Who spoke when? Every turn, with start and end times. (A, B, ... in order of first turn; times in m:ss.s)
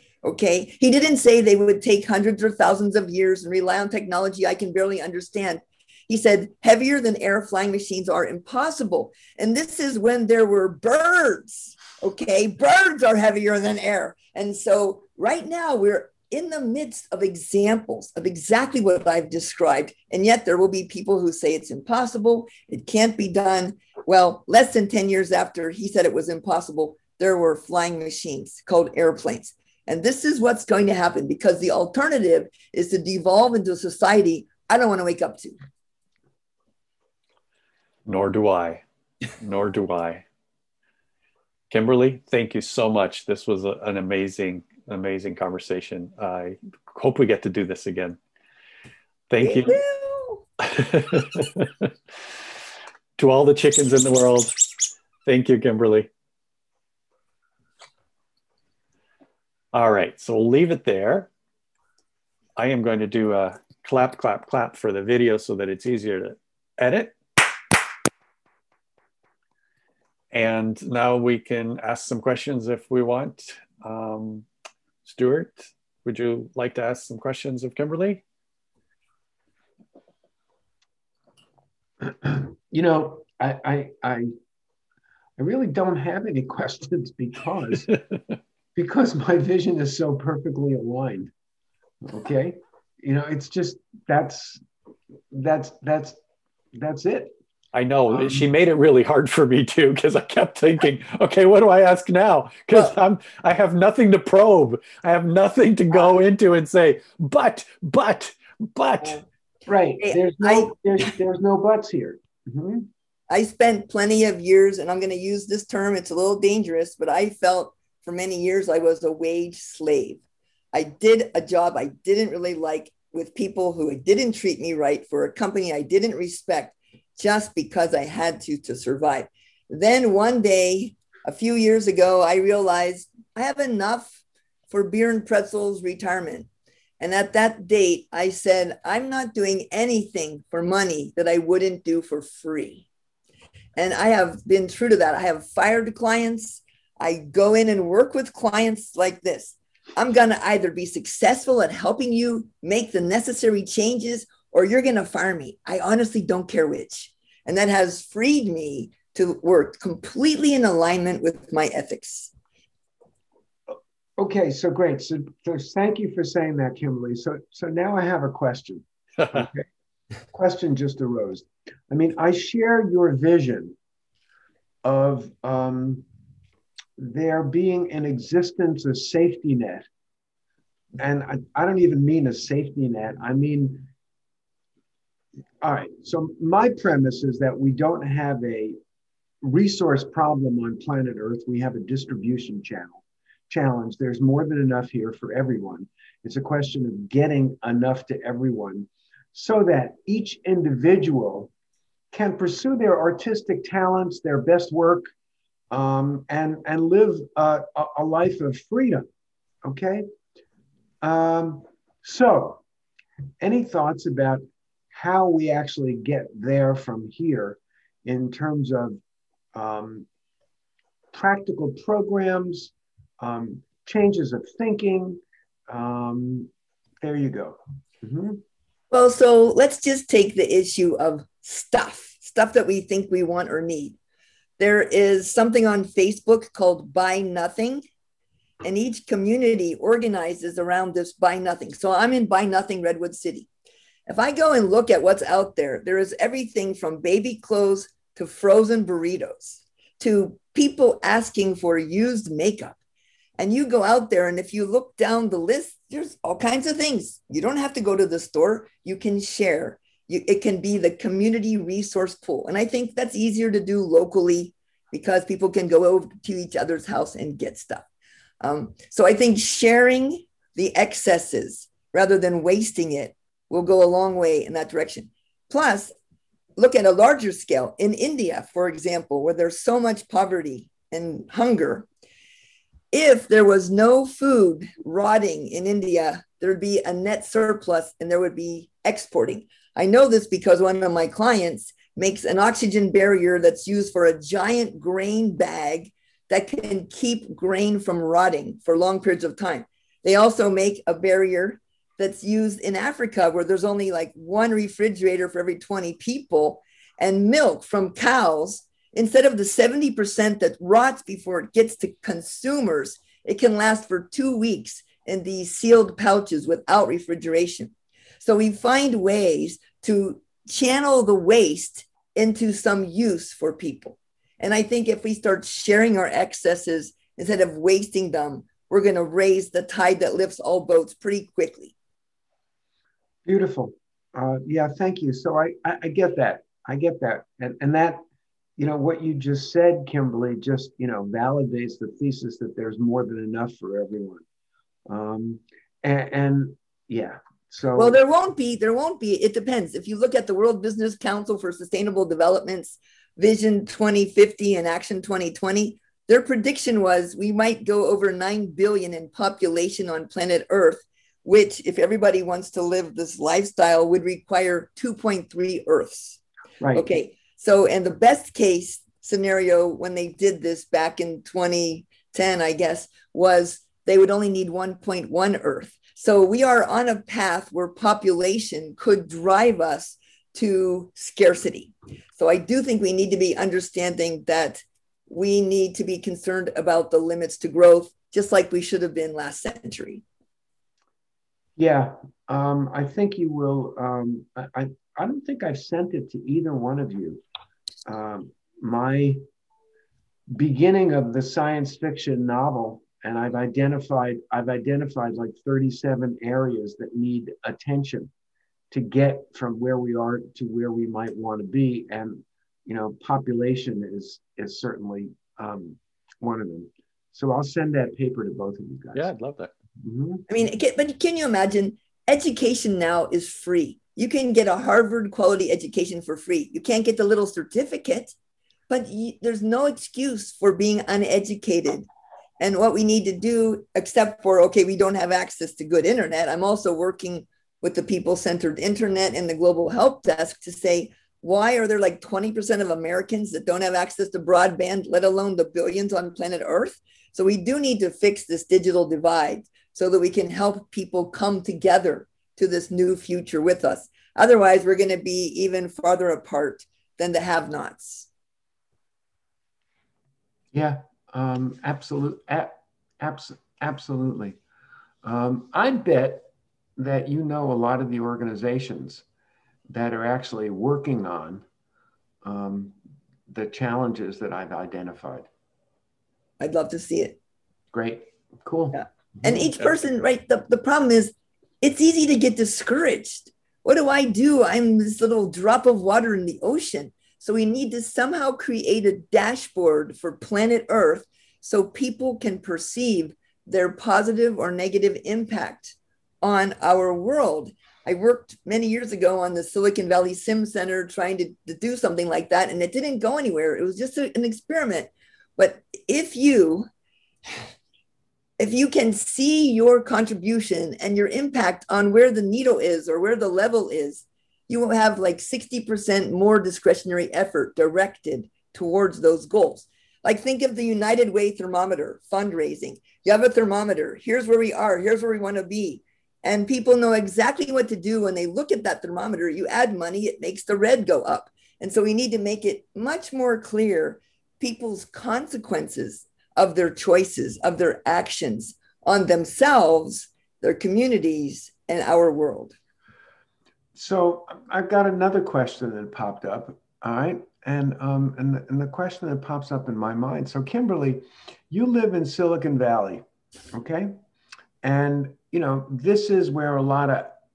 0:00.2-0:35.6 A
0:38.1-0:38.8 B
0:39.4-0:40.2 B
0:41.7-0:48.2 B
0:49.3-0:49.8 B
0:49.4-0:50.4 A
0:50.6-0:51.9 B
0:53.2-0:54.5 B
0:55.2-0:56.1 B
0:59.7-1:01.3 B
1:02.6-1:07.8 B
1:10.3-1:14.5 B
1:15.0-1:18.2 B
1:22.0-1:24.3 C
1:25.4-1:28.0 C
1:28.8-1:31.3 C
1:32.0-1:34.6 C
1:35.3-1:36.2 C
1:36.7-1:37.4 C
1:37.7-1:49.2 B
1:38.2-1:38.4 C
1:49.7-1:52.9 C
1:50.0-1:50.8 A
1:53.3-2:00.2 A
2:00.7-2:14.2 A
2:14.7-2:16.5 A
2:17.0-2:22.9 A
2:23.8-2:42.3 A
2:44.2-2:49.7 C
2:50.3-2:53.8 C
2:54.8-2:56.1 C
2:57.0-2:59.9 C
3:01.0-3:03.9 C
3:05.6-3:08.8 C
3:09.4-3:21.5 C
3:22.1-3:25.1 C
3:25.7-3:29.1 C
3:29.6-3:30.1 C
3:31.0-3:32.6 C
3:33.4-3:39.0 C
3:39.5-3:40.1 C
3:41.1-3:46.5 C
3:47.0-3:48.4 C
3:48.9-3:54.0 A
3:54.6-3:57.8 A
3:58.6-4:03.5 A
4:04.1-4:12.8 A
4:13.4-4:27.8 A
4:28.4-4:35.9 A
4:36.6-4:41.9 A
4:42.9-5:31.7 A
5:33.2-5:38.0 C
5:38.6-5:44.2 C
5:44.9-5:48.0 C
5:47.8-6:06.2 A
6:06.6-6:06.9 C
6:06.8-6:30.0 A
6:31.6-6:37.2 C
6:37.9-6:39.2 C
6:40.3-6:48.1 C
6:48.7-6:59.1 C
6:59.0-6:59.5 B
6:59.8-7:00.3 C
7:00.3-7:08.2 A
7:08.7-7:11.9 A
7:12.4-7:38.1 A
7:40.5-7:44.4 C
7:45.0-7:46.2 C
7:46.8-7:49.0 C
7:49.7-7:51.4 C
7:52.2-7:52.7 C
7:53.3-7:55.3 C
7:56.4-7:57.2 A
7:57.7-7:59.4 C
7:58.7-8:26.7 A
8:28.4-9:02.6 A
9:03.8-9:14.0 C
9:14.6-9:17.2 C